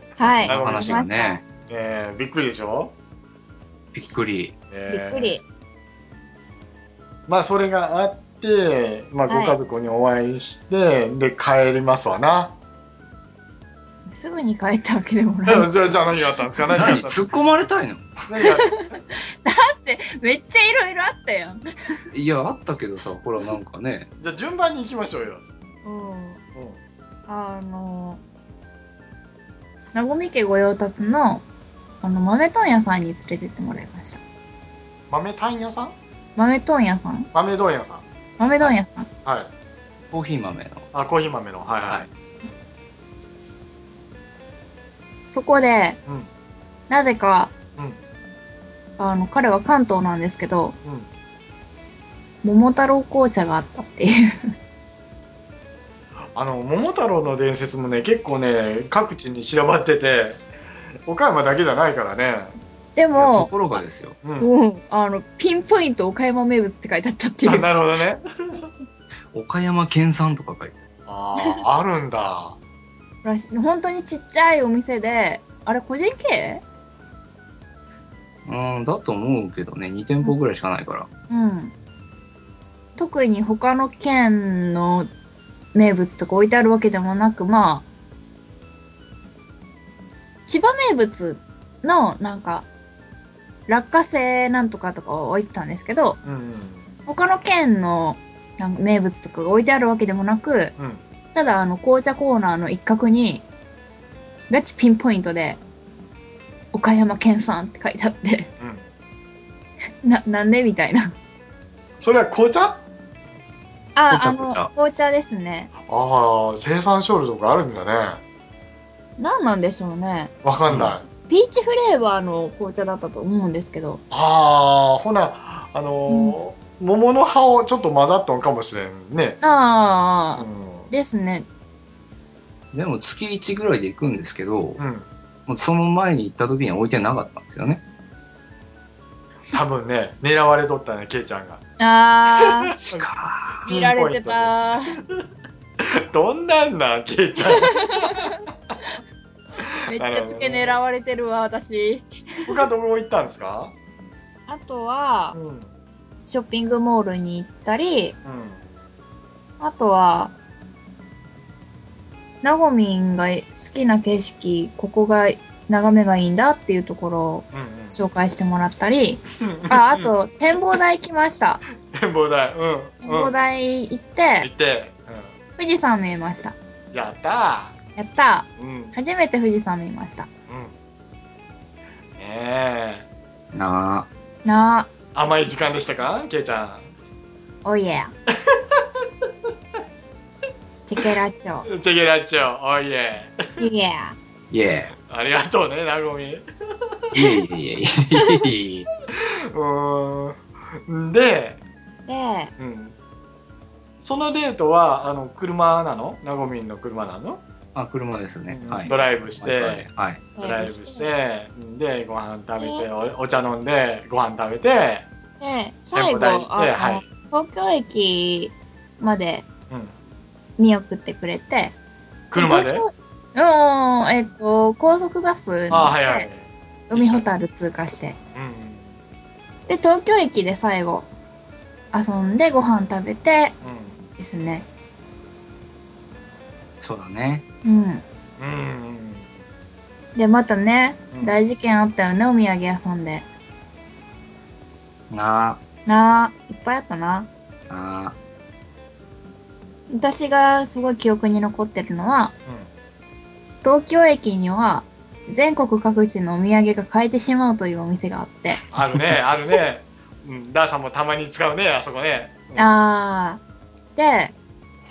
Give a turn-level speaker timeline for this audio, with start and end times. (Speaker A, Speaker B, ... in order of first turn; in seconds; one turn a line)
Speaker A: 0.2-1.4
Speaker B: 0.2-1.4
Speaker C: 0.4-1.0
Speaker C: 1.7-2.9
Speaker B: 3.9-4.6
Speaker C: 4.7-5.4
Speaker A: 4.9-5.4
Speaker C: 7.3-12.6
Speaker A: 9.3-9.6
Speaker A: 14.1-16.9
Speaker C: 15.5-17.3
Speaker B: 16.8-18.3
Speaker C: 18.3-18.7
Speaker A: 18.4-21.6
Speaker B: 22.1-24.1
Speaker C: 24.2-25.4
Speaker A: 25.9-26.4
Speaker A: 27.3-28.2
Speaker A: 29.9-31.4
Speaker A: 32.0-34.2
Speaker C: 35.1-36.0
Speaker A: 36.4-37.3
Speaker C: 37.3-38.0
Speaker A: 38.4-39.1
Speaker C: 39.2-39.5
Speaker B: 40.1-40.9
Speaker C: 40.9-42.1
Speaker A: 45.3-46.0
Speaker A: 46.9-47.5
Speaker A: 49.0-50.8
Speaker A: 52.4-54.5
Speaker C: 56.4-60.4
Speaker C: 61.1-62.5
Speaker A: 63.0-63.8
Speaker B: 63.1-64.2
Speaker A: 64.4-67.7
Speaker C: 67.5-68.6
Speaker B: 69.3-70.9
Speaker C: 71.1-72.6
Speaker A: 73.2-76.6
Speaker B: 78.5-81.1
Speaker A: 81.3-81.7
Speaker A: 83.0-85.1
Speaker A: 85.7-87.8
Speaker A: 90.4-92.7
Speaker A: 93.7-96.2
Speaker C: 96.2-96.9
Speaker A: 97.1-100.8
Speaker A: 101.3-103.4
Speaker A: 104.5-105.6
Speaker A: 106.7-108.5
Speaker C: 108.6-108.8
Speaker A: 110.0-111.1
Speaker C: 112.0-112.8
Speaker A: 114.0-115.7
Speaker B: 114.1-114.7
Speaker C: 115.8-118.2
Speaker A: 119.2-120.3
Speaker C: 120.4-121.0
Speaker B: 120.7-121.0
Speaker A: 121.3-124.0
Speaker C: 124.1-129.4
Speaker A: 126.1-126.4
Speaker A: 129.4-131.5
Speaker C: 130.4-130.9
Speaker B: 132.7-134.8
Speaker C: 134.8-135.1
Speaker B: 135.5-137.8
Speaker C: 139.5-141.6
Speaker A: 141.8-142.7
Speaker C: 142.5-143.1
Speaker B: 142.8-143.7
Speaker C: 143.7-144.5
Speaker A: 143.7-145.0
Speaker C: 145.8-148.3
Speaker A: 147.6-148.3
Speaker A: 149.9-152.5
Speaker C: 149.9-150.8
Speaker C: 152.5-153.7
Speaker A: 154.5-155.4
Speaker C: 155.3-155.7
Speaker A: 156.3-158.2
Speaker C: 158.2-158.6
Speaker A: 159.6-160.3
Speaker A: 162.4-171.6
Speaker C: 167.5-168.0
Speaker C: 169.4-170.1
Speaker C: 171.9-173.3
Speaker A: 173.0-174.5
Speaker C: 174.4-175.3
Speaker A: 175.6-176.6
Speaker C: 176.9-177.8
Speaker A: 178.0-180.3
Speaker C: 178.6-178.9
Speaker C: 182.2-183.1
Speaker B: 183.5-184.1
Speaker A: 184.4-184.9
Speaker C: 185.2-186.9
Speaker A: 187.6-188.1
Speaker C: 188.5-188.8
Speaker A: 190.9-191.7
Speaker C: 191.7-193.4
Speaker A: 193.6-194.2
Speaker B: 194.5-194.9
Speaker C: 195.1-196.4
Speaker B: 197.1-198.9
Speaker C: 199.5-201.6
Speaker A: 202.1-202.5
Speaker C: 202.6-202.9
Speaker C: 204.0-207.4
Speaker B: 207.8-210.2
Speaker C: 208.5-209.8
Speaker A: 210.4-211.1
Speaker C: 210.4-215.1
Speaker A: 212.6-212.8
Speaker A: 215.4-219.4
Speaker C: 215.9-217.0
Speaker A: 220.6-221.7
Speaker C: 222.3-222.8
Speaker A: 222.4-226.3
Speaker C: 225.7-227.3
Speaker A: 226.9-228.2
Speaker C: 228.3-228.9
Speaker A: 229.7-231.1
Speaker A: 231.9-233.6
Speaker C: 233.6-234.0
Speaker A: 234.2-234.7
Speaker B: 236.8-237.4
Speaker A: 237.6-238.0
Speaker C: 238.4-239.3
Speaker A: 240.2-243.3
Speaker C: 241.1-241.4
Speaker B: 245.1-245.6
Speaker A: 245.9-247.3
Speaker B: 247.7-248.2
Speaker A: 249.9-252.3
Speaker A: 253.6-258.6
Speaker C: 258.7-262.7
Speaker A: 262.6-263.4
Speaker A: 264.0-264.3